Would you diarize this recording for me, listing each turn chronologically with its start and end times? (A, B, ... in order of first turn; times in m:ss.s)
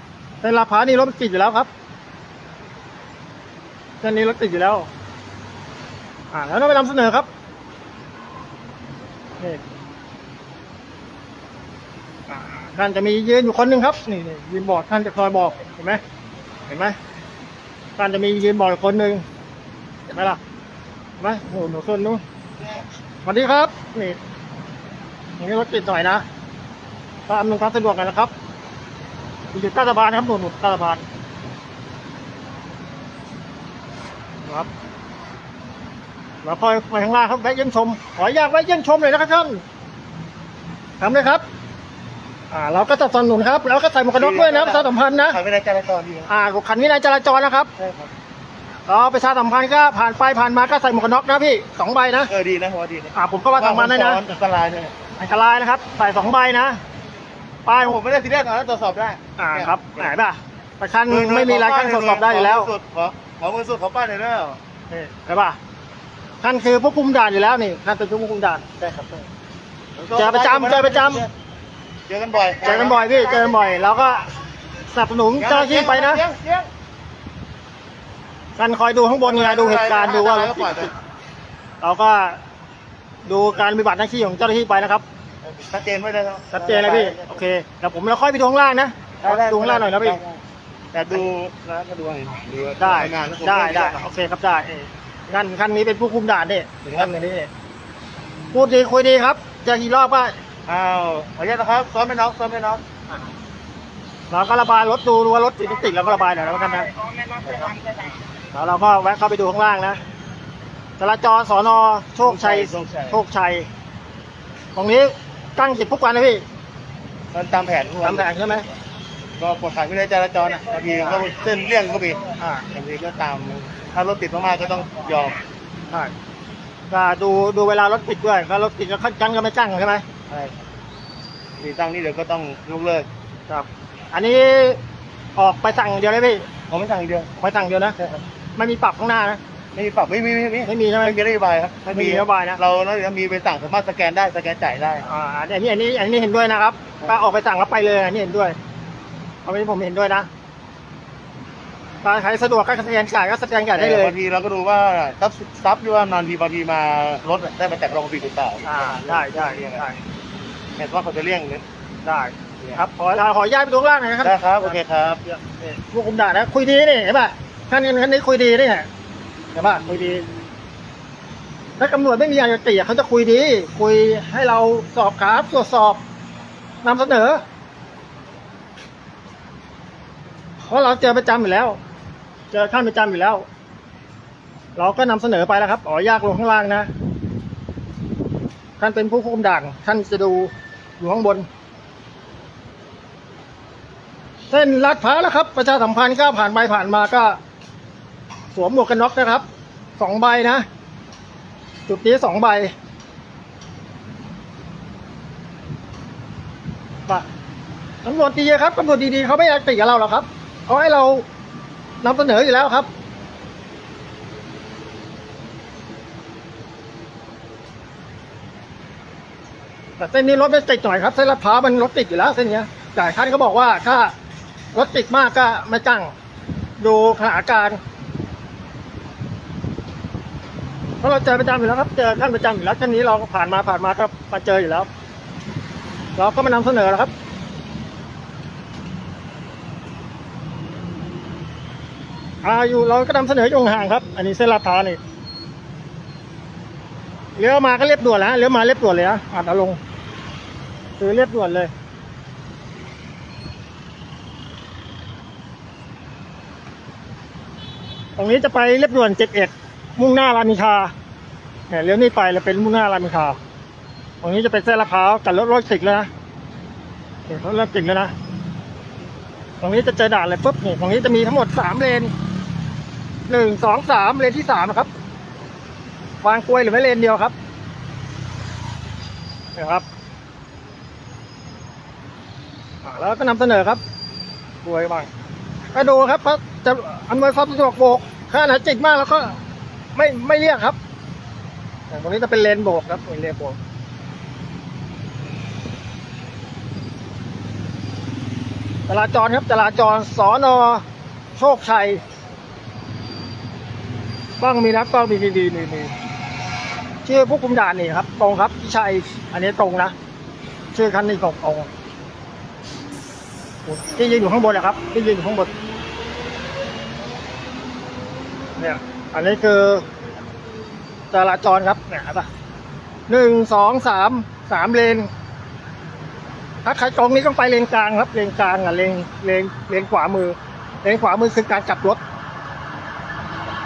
0:00.4-0:01.7 A
0:04.0-0:04.9 A
0:06.3-0:07.3 A
0:12.3-0:16.0 A
0:16.7-0:17.0 A
0:18.0-0:19.2 A
0:20.1-0:20.4 A
0:21.2-0:22.2 A
0:23.2-0:24.2 A
0:25.4-0:26.2 A
0:27.3-0:28.3 A
0:29.5-0:31.0 A
0:36.4-0:39.6 A
0:41.0-0:41.4 A
0:42.5-0:45.4 A
0:44.1-0:46.3 B
0:46.3-0:47.7 A
0:47.8-0:48.1 B
0:48.9-0:52.3 A
0:52.3-0:54.9 B
0:53.2-0:54.3 A
0:55.2-0:56.8 A
0:57.7-0:58.0 A
0:57.8-1:00.1 B
0:59.4-1:02.7 A
1:01.1-1:04.6 B
1:04.9-1:05.6 A
1:06.4-1:08.6 A
1:08.8-1:09.3 B
1:10.0-1:11.3 B
1:10.2-1:11.2 A
1:12.1-1:13.2 B
1:12.6-1:14.4 A
1:14.9-1:16.2 A
1:15.4-1:16.7 B
1:18.6-1:20.9 A
1:19.2-1:20.9 B
1:21.8-1:22.4 A
1:23.3-1:25.0 A
1:25.4-1:27.4 B
1:26.5-1:30.2 A
1:29.2-1:30.4 B
1:30.9-1:34.0 B
1:32.8-1:37.5 A
1:38.5-1:40.4 A
1:40.7-1:42.8 B
1:44.3-1:46.9 A
1:47.2-1:48.1 B
1:48.5-1:50.0 A
1:51.0-1:53.7 A
1:52.2-1:53.2 B
1:54.8-1:56.4 A
1:57.3-1:58.3 B
1:58.0-1:58.7 A
1:59.4-2:05.4 B
2:02.4-2:02.7 A
2:06.9-2:10.1 A
2:10.3-2:10.6 B
2:11.6-2:13.1 B
2:13.5-2:14.8 A
2:15.4-2:16.5 A
2:16.7-2:17.3 B
2:17.4-2:19.4 A
2:19.7-2:25.1 B
2:20.6-2:21.2 A
2:21.8-2:22.6 A
2:25.0-2:28.6 A
2:29.4-2:30.3 A
2:32.0-2:34.1 A
2:33.8-2:39.8 B
2:38.7-2:40.0 A
2:40.8-2:41.6 B
2:42.0-2:48.9 A
2:44.2-2:45.2 B
2:49.5-2:50.3 A
2:51.8-2:56.0 A
2:56.8-2:57.4 A
3:00.6-3:01.8 A
3:02.5-3:03.5 A
3:04.8-3:06.9 A
3:08.8-3:11.5 A
3:14.5-3:17.4 A
3:18.5-3:19.4 A
3:20.0-3:20.7 A
3:21.9-3:22.7 A
3:28.0-3:31.3 A
3:32.0-3:32.9 A
3:40.0-3:44.1 A
3:44.7-3:46.1 A
3:46.8-3:47.8 A
3:51.0-3:54.9 A
3:56.2-3:57.1 A
4:02.4-4:05.0 A
4:07.4-4:09.8 A
4:11.0-4:11.7 A
4:18.2-4:20.9 A
4:21.7-4:23.4 A
4:24.2-4:26.1 A
4:27.3-4:28.1 A
4:29.6-4:32.1 A
4:33.3-4:34.9 A
4:36.2-4:37.4 A
4:39.6-4:39.9 A
4:42.8-4:43.8 A
4:44.6-4:45.1 A
4:45.7-4:49.4 A
4:50.0-4:50.8 A
4:51.9-4:53.6 A
4:58.9-5:00.8 A
5:01.4-5:02.0 A
5:04.4-5:05.9 A
5:07.0-5:10.0 A
5:10.7-5:11.7 A
5:13.7-5:15.5 A
5:18.6-5:19.9 A
5:21.1-5:22.3 A
5:23.1-5:25.1 A
5:26.6-5:32.0 A